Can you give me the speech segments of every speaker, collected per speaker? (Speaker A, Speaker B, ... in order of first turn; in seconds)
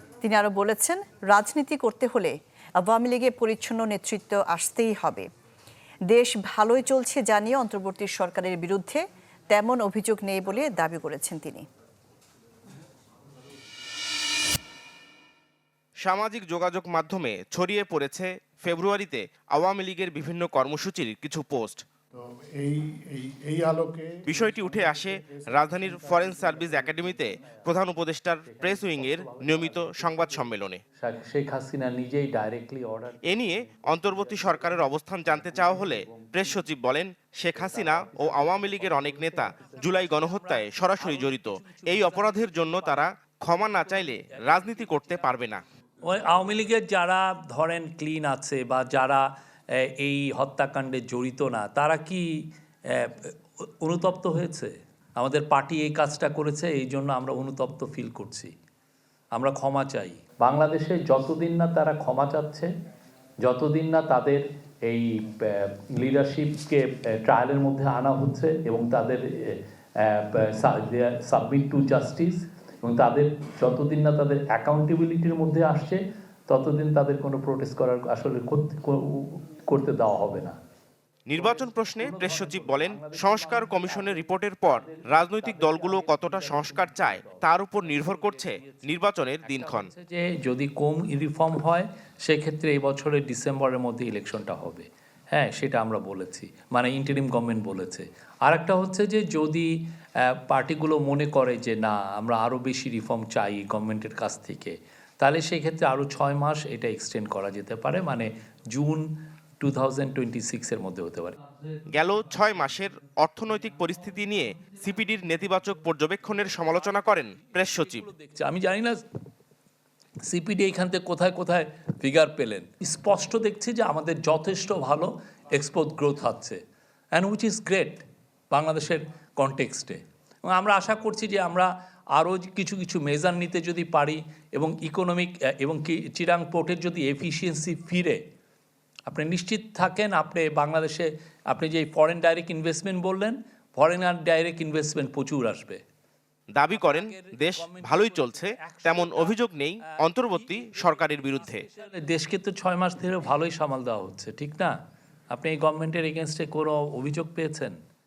Speaker A: 0.2-5.2, 6.1-11.6
Speaker B: 16.0-21.8, 24.3-30.8, 33.3-45.6, 81.3-89.9, 111.9-118.1, 146.5-151.6
Speaker C: 22.2-24.2
Speaker D: 24.4-27.9, 28.4-36.6, 37.5-43.1, 43.6-45.4, 46.0-58.5, 59.3-62.7, 63.4-80.6, 81.3-99.7, 100.2-109.1, 109.6-111.4, 116.4-119.0, 120.3-126.6, 127.2-138.2, 139.1-145.8, 146.7-154.8, 155.3-157.8